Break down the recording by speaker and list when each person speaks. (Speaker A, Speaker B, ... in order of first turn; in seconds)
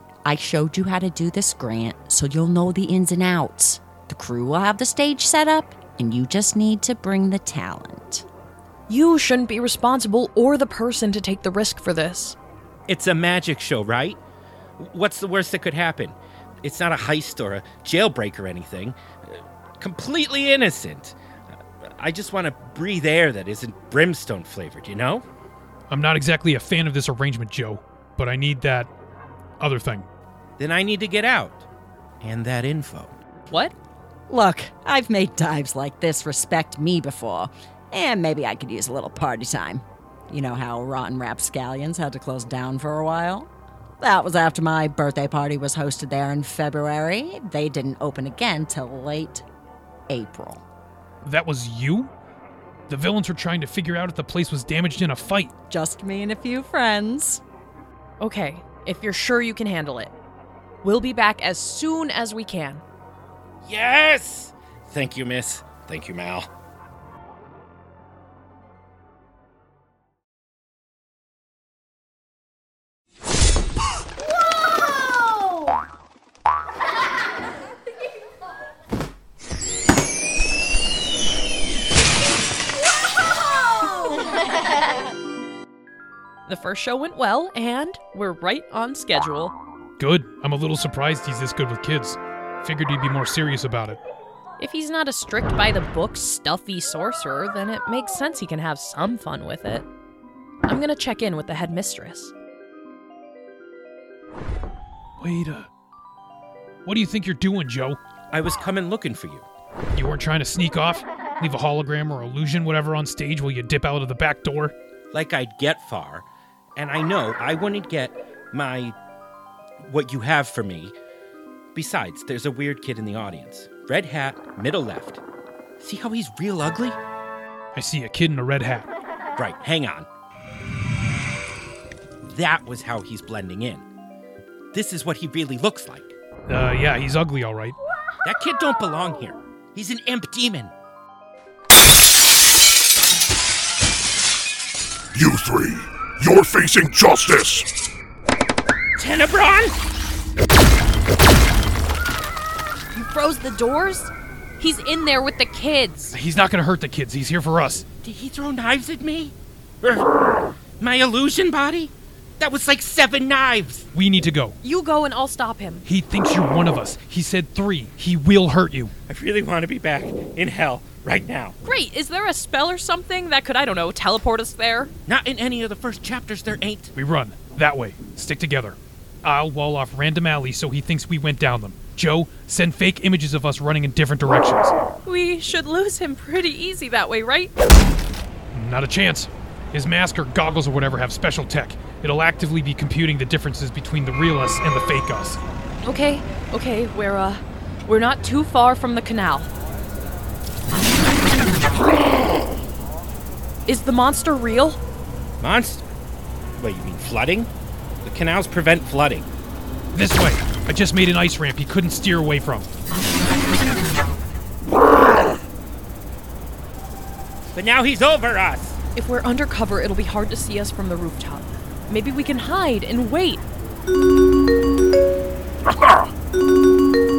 Speaker A: 0.2-8.2, 34.3-43.5, 44.0-49.4, 50.1-50.6, 55.7-57.4
Speaker B: 8.9-12.4, 33.5-33.7, 58.2-60.1, 60.8-62.8, 86.5-89.5, 94.6-99.8, 100.7-102.3, 152.9-156.1, 164.6-165.8, 171.6-174.9, 185.0-187.5, 195.8-199.5, 203.7-204.8, 218.9-223.4
Speaker C: 12.9-14.2, 14.8-21.1, 21.8-25.2, 30.6-31.6, 32.2-33.2, 63.6-66.5, 108.3-109.5, 115.1-116.2, 116.8-118.9, 119.8-120.9, 121.7-125.2, 125.8-127.0, 129.4-130.1, 132.2-133.8, 134.7-136.1, 138.2-140.7, 149.0-149.7, 158.0-160.1, 160.8-163.9, 169.1-171.6, 175.1-176.9, 205.4-205.8, 206.6-207.5, 208.0-209.3, 217.5-218.8
Speaker D: 25.9-28.9, 29.6-30.1, 51.2-52.1, 52.9-55.5, 90.0-94.0, 105.2-105.7, 106.8-108.0, 109.9-114.7, 127.7-128.9, 136.5-137.8, 156.1-157.8, 163.9-164.6, 165.8-168.9, 176.9-184.8, 188.5-195.4, 209.9-212.7
Speaker E: 145.1-147.7, 225.7-226.0